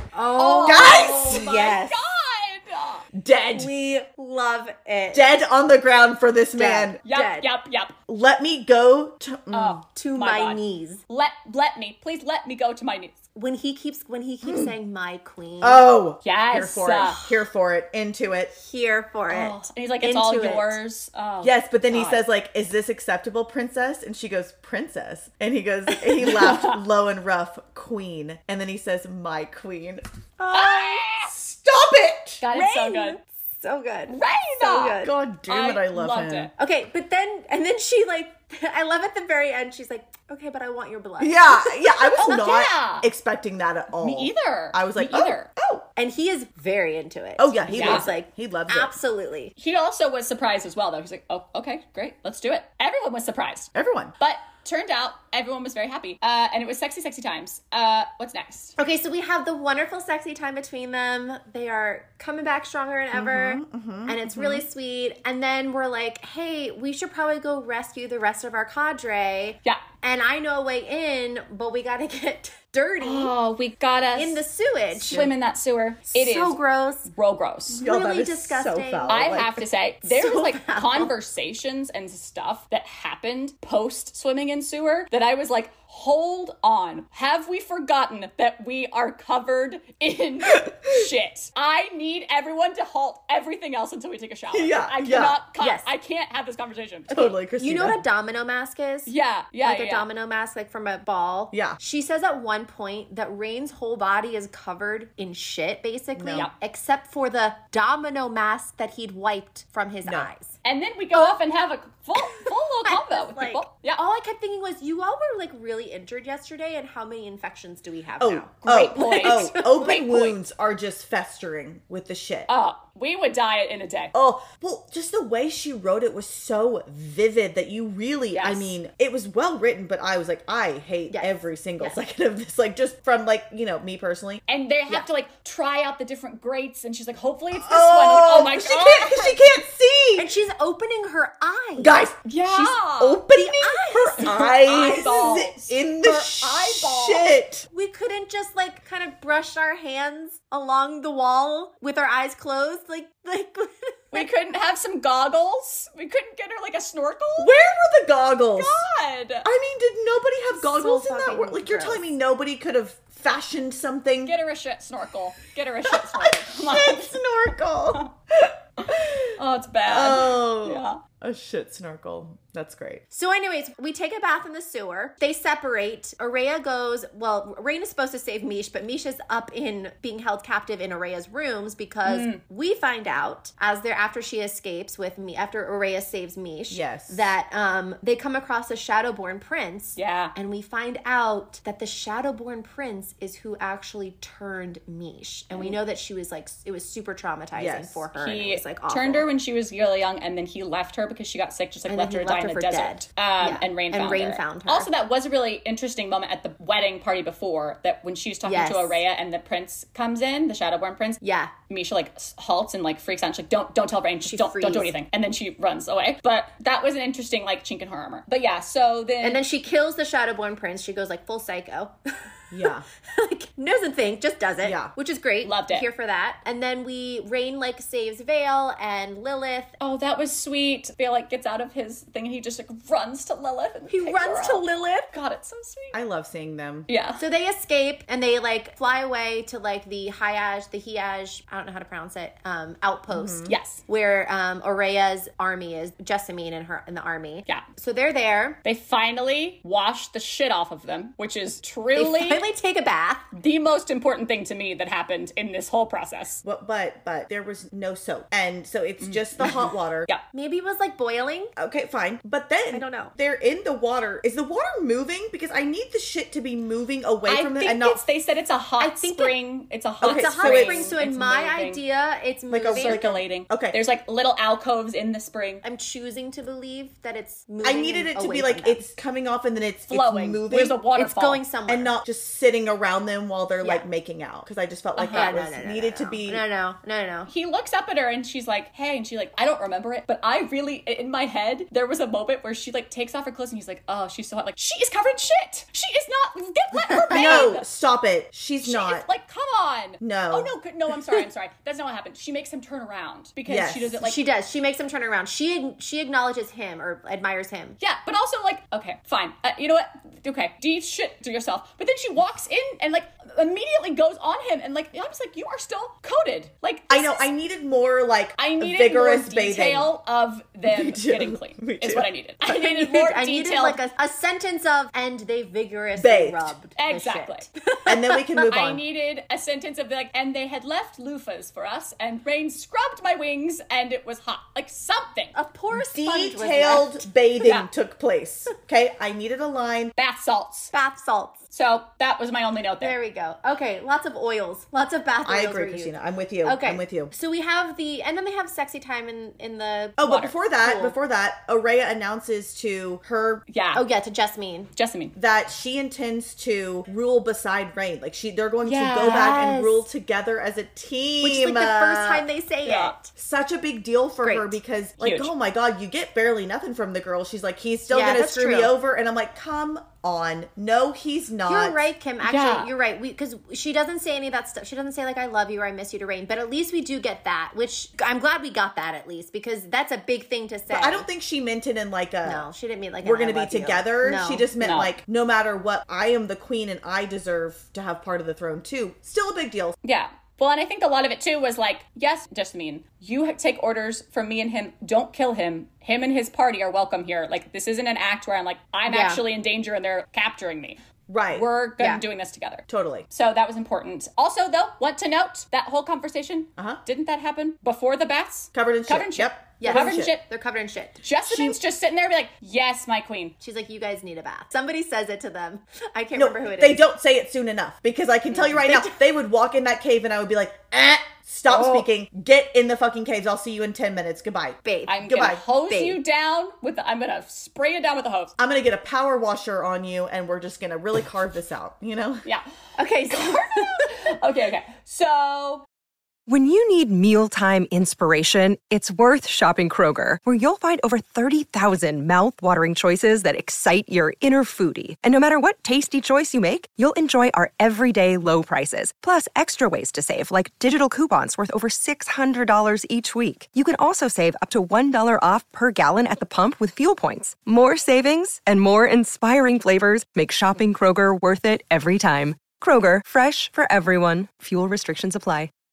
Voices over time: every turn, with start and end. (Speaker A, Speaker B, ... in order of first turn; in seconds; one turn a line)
Speaker A: 0.1-2.0
Speaker B: 0.4-3.0
Speaker C: 0.6-1.7
Speaker C: 3.1-3.7
Speaker A: 3.5-5.3
Speaker C: 5.1-7.0
Speaker A: 6.5-7.5
Speaker B: 7.0-7.9
Speaker C: 8.1-9.8
Speaker B: 9.5-13.2
Speaker A: 9.9-11.0
Speaker A: 13.3-15.8
Speaker C: 14.4-14.7
Speaker C: 15.6-18.5
Speaker B: 16.2-17.2
Speaker A: 17.0-17.3
Speaker A: 18.5-20.8
Speaker B: 19.3-22.2
Speaker C: 21.4-30.0
Speaker B: 26.2-26.8
Speaker A: 30.4-31.0
Speaker B: 30.5-31.3
Speaker C: 31.2-32.4
Speaker B: 32.4-33.2
Speaker A: 32.5-35.1
Speaker B: 34.1-36.5
Speaker C: 35.0-36.5
Speaker A: 36.6-42.5
Speaker C: 41.2-45.9
Speaker B: 42.2-43.1
Speaker B: 44.0-45.5
Speaker A: 46.0-49.5
Speaker C: 47.4-48.9
Speaker B: 47.7-48.1
Speaker B: 49.6-58.7
Speaker C: 53.7-54.1
Speaker A: 58.8-73.3
Speaker C: 63.1-64.6
Speaker B: 73.0-74.4
Speaker A: 74.1-75.3
Speaker B: 75.0-77.8
Speaker A: 76.1-77.1
Speaker C: 77.7-79.6
Speaker A: 77.8-79.5
Speaker B: 79.1-97.3
Speaker A: 80.0-81.1
Speaker C: 90.5-91.0
Speaker C: 94.5-95.4
Speaker A: 95.6-95.8
Speaker C: 97.1-98.0
Speaker A: 97.6-99.1
Speaker B: 99.1-100.1
Speaker A: 99.6-110.5
Speaker C: 101.5-101.8
Speaker C: 106.1-106.5
Speaker B: 110.6-114.0
Speaker A: 112.2-120.0
Speaker C: 118.2-122.5
Speaker B: 118.7-120.4
Speaker B: 122.5-124.1
Speaker C: 124.1-134.4
Speaker B: 128.3-128.7
Speaker A: 131.1-132.0
Speaker B: 134.5-139.3
Speaker C: 137.5-140.3
Speaker A: 140.2-141.9
Speaker C: 141.8-147.7
Speaker B: 142.2-143.2
Speaker A: 143.3-144.5
Speaker B: 144.2-147.3
Speaker A: 147.7-154.3
Speaker B: 154.1-157.6
Speaker C: 157.4-158.8
Speaker B: 158.5-159.5
Speaker C: 159.4-164.3
Speaker A: 160.5-162.0
Speaker B: 164.2-167.1
Speaker C: 165.9-173.0
Speaker B: 169.3-171.0
Speaker A: 173.1-199.3
Speaker B: 182.0-182.4
Speaker C: 186.7-187.3
Speaker B: 189.9-190.3
Speaker C: 197.5-198.0
Speaker B: 198.2-219.4
Speaker A: 201.9-204.9
Speaker A: 208.4-209.0
Speaker A: 211.2-211.5
Speaker A: 214.2-214.9
Speaker A: 219.2-221.9
Speaker C: 222.5-222.8
Speaker A: 222.6-229.7
Speaker C: 224.6-224.9
Speaker B: 225.4-225.8
Speaker B: 229.8-236.0
Speaker A: 233.9-235.1
Speaker C: 235.9-236.9
Speaker B: 236.9-237.2
Speaker A: 237.2-248.6
Speaker C: 243.1-243.5
Speaker B: 243.5-243.8
Speaker B: 248.6-252.4
Speaker A: 251.9-253.3
Speaker B: 253.3-256.4
Speaker C: 256.4-260.1
Speaker B: 259.0-260.2
Speaker A: 260.3-261.5
Speaker C: 261.6-268.0
Speaker A: 262.7-263.1
Speaker B: 267.3-271.8
Speaker A: 268.8-269.4
Speaker C: 270.0-270.9
Speaker A: 270.0-273.1
Speaker C: 272.5-273.8
Speaker B: 272.7-275.6
Speaker A: 275.6-278.8
Speaker C: 277.6-280.8
Speaker B: 279.9-281.4
Speaker A: 280.9-281.9
Speaker C: 281.7-286.4
Speaker B: 285.0-285.3
Speaker A: 285.1-287.3
Speaker B: 287.3-297.6
Speaker A: 296.9-297.5
Speaker C: 297.1-299.1
Speaker B: 298.6-304.2
Speaker C: 300.0-300.5
Speaker C: 303.4-304.0
Speaker A: 304.0-307.8
Speaker B: 307.8-317.2
Speaker C: 316.9-319.9
Speaker B: 318.4-323.8
Speaker C: 320.6-322.1
Speaker A: 322.4-328.2
Speaker C: 326.0-326.5
Speaker B: 326.8-327.5
Speaker C: 327.9-328.8
Speaker B: 328.4-335.4
Speaker A: 335.3-337.0
Speaker C: 335.7-339.9
Speaker B: 337.4-337.7
Speaker B: 339.9-340.7
Speaker A: 340.7-341.4
Speaker B: 341.5-342.9
Speaker A: 342.8-350.9
Speaker C: 345.2-347.1
Speaker C: 350.0-353.4
Speaker B: 350.0-350.3
Speaker B: 353.5-353.8
Speaker A: 353.7-354.7
Speaker B: 354.8-355.1
Speaker C: 355.1-362.2
Speaker B: 358.6-359.4
Speaker A: 359.0-359.9
Speaker A: 361.2-363.1
Speaker B: 362.6-363.0
Speaker C: 363.1-371.9
Speaker A: 364.2-364.6
Speaker B: 365.0-365.3
Speaker A: 367.9-368.7
Speaker A: 371.5-381.1
Speaker B: 372.2-372.7
Speaker C: 380.7-382.5
Speaker A: 382.2-384.5
Speaker C: 383.0-389.8
Speaker B: 384.6-384.9
Speaker B: 389.8-400.8
Speaker A: 398.9-399.2
Speaker C: 401.1-401.5
Speaker B: 401.3-410.2
Speaker C: 402.7-403.0
Speaker C: 408.5-410.1
Speaker A: 409.6-411.0
Speaker B: 411.0-413.3
Speaker C: 411.2-411.6
Speaker A: 413.4-416.8
Speaker C: 416.1-425.4
Speaker B: 418.3-418.7
Speaker B: 421.5-421.8
Speaker A: 424.6-425.1
Speaker B: 424.9-428.3
Speaker A: 425.6-426.0
Speaker C: 428.4-432.3
Speaker A: 432.8-434.1
Speaker B: 433.1-435.6
Speaker D: 436.3-465.5